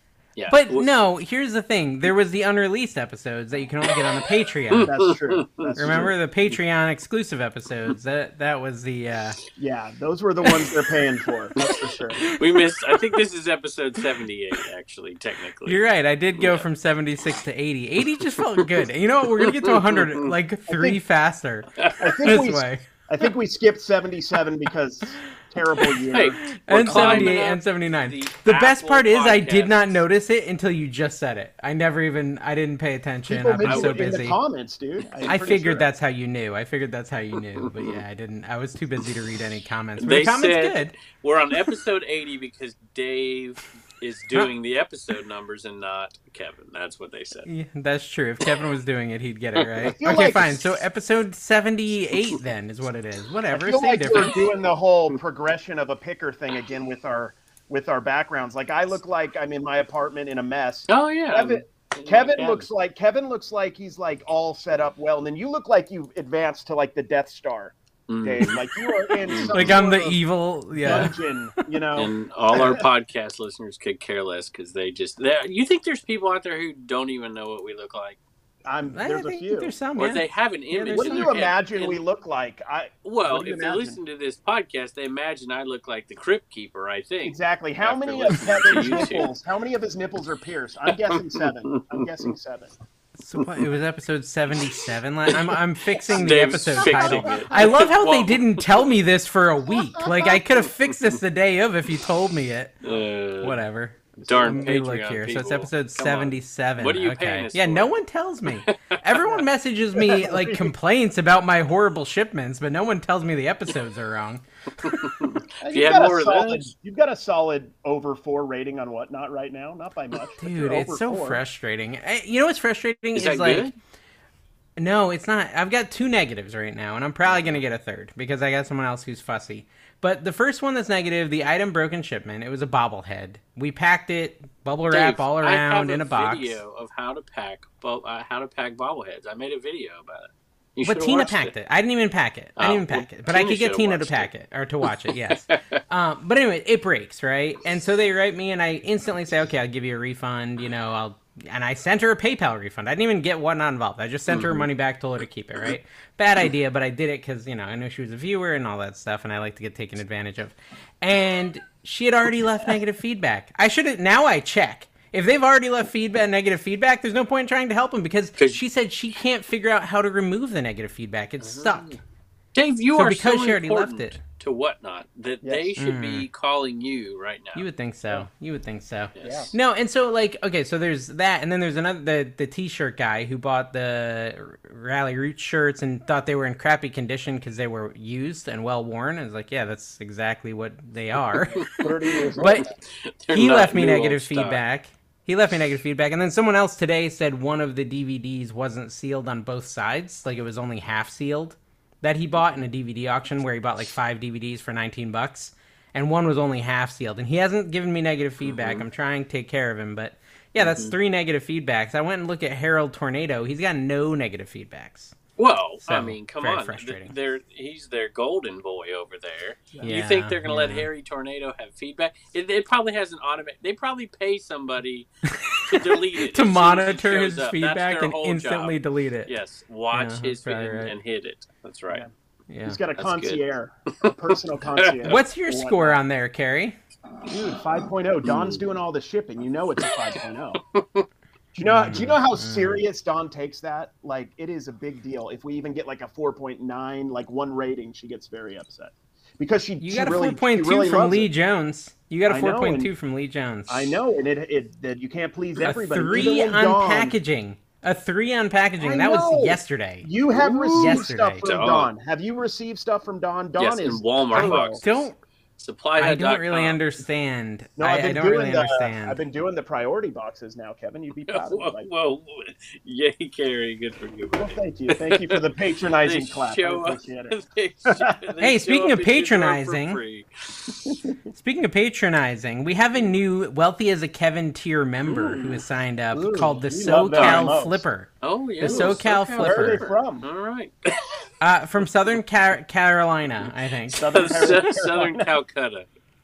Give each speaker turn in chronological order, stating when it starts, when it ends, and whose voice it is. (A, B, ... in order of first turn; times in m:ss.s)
0:00.4-0:01.0 A
0:00.5-0:05.0 B
0:04.7-0:06.1 A
0:04.8-0:06.1 C
0:05.8-0:09.4 B
0:09.6-0:12.3 C
0:10.5-0:10.7 A
0:11.6-0:15.8 A
0:15.7-0:22.9 B
0:16.4-0:16.6 A
0:18.1-0:20.3 A
0:20.7-0:21.0 C
0:21.8-0:22.2 A
0:22.0-0:27.4 C
0:26.1-0:30.0 A
0:26.4-0:34.4 B
0:33.3-0:35.9 C
0:33.6-0:34.1 A
0:35.3-0:40.9 B
0:37.6-0:38.0 A
0:40.0-0:47.5 A
0:47.5-0:54.4 B
0:49.6-0:50.0 A
0:50.0-0:50.6 C
0:53.5-1:10.2 C
1:00.9-1:02.7 A
1:08.1-1:09.7 A
1:09.5-1:11.6 B
1:10.8-1:12.9 C
1:10.8-1:11.1 A
1:12.0-1:18.2 A
1:18.7-1:19.7 C
1:18.9-1:21.4 B
1:20.0-1:22.0 A
1:20.9-1:24.0 C
1:23.0-1:29.3 A
1:27.2-1:32.7 C
1:30.9-1:32.0 A
1:33.2-1:42.8 B
1:35.3-1:38.9 A
1:36.8-1:37.8 C
1:40.0-1:40.3 C
1:42.8-1:43.6 A
1:43.4-1:55.1 B
1:44.2-1:44.7 C
1:44.3-1:47.9 A
1:48.6-1:49.0 A
1:49.2-1:50.8 C
1:54.8-1:56.7 A
1:55.6-2:01.4 C
2:00.4-2:03.7 B
2:03.2-2:03.8 A
2:04.8-2:16.6 B
2:07.3-2:07.6 A
2:14.9-2:21.5 A
2:20.8-2:52.0 B
2:22.6-2:24.3 A
2:24.8-2:25.8 A
2:34.3-2:34.7 A
2:51.4-2:52.0 A
2:52.5-2:57.7 A
2:53.0-2:54.2 B
2:55.4-2:55.8 C
2:55.8-2:56.3 B
2:57.6-3:11.7 B
2:59.2-2:59.5 A
2:59.2-2:59.6 C
3:11.4-3:12.7 C
3:11.6-3:14.6 A
3:12.4-3:12.7 B
3:13.3-3:35.2 B
3:28.4-3:28.9 A
3:30.6-3:31.0 A
3:35.4-3:45.1 A
3:35.8-3:37.1 B
3:39.8-3:40.9 B
3:45.2-3:49.3 B
3:45.7-3:52.1 A
3:49.9-3:50.9 B
3:52.5-3:52.8 B
3:52.6-3:56.0 C
3:53.0-3:53.4 A
3:54.8-3:55.2 A
3:55.0-3:56.8 B
3:57.3-4:00.6 C
3:58.2-3:58.6 A
4:00.6-4:01.1 A
4:01.5-4:11.3 C
4:01.6-4:02.8 B
4:09.8-4:14.0 B
4:12.3-4:12.9 C
4:13.7-4:17.2 C
4:15.6-4:20.1 B
4:18.8-4:24.8 C
4:20.3-4:21.9 A
4:20.8-4:21.5 B
4:23.6-4:25.1 A
4:24.4-4:25.2 B
4:25.6-4:26.8 A
4:26.0-4:29.2 B
4:27.8-4:31.9 C
4:31.3-4:35.4 A
4:34.4-4:37.4 C
4:36.0-4:40.9 A
4:37.9-4:38.2 C
4:38.4-4:40.0 B
4:40.8-4:41.2 C
4:41.3-4:49.8 B
4:45.0-4:45.6 A
4:46.1-4:47.8 C
4:47.1-4:47.5 A
4:48.2-4:51.2 A
4:48.6-4:50.3 C
4:51.4-4:54.2 B
4:53.9-4:55.4 C
4:54.1-4:55.9 A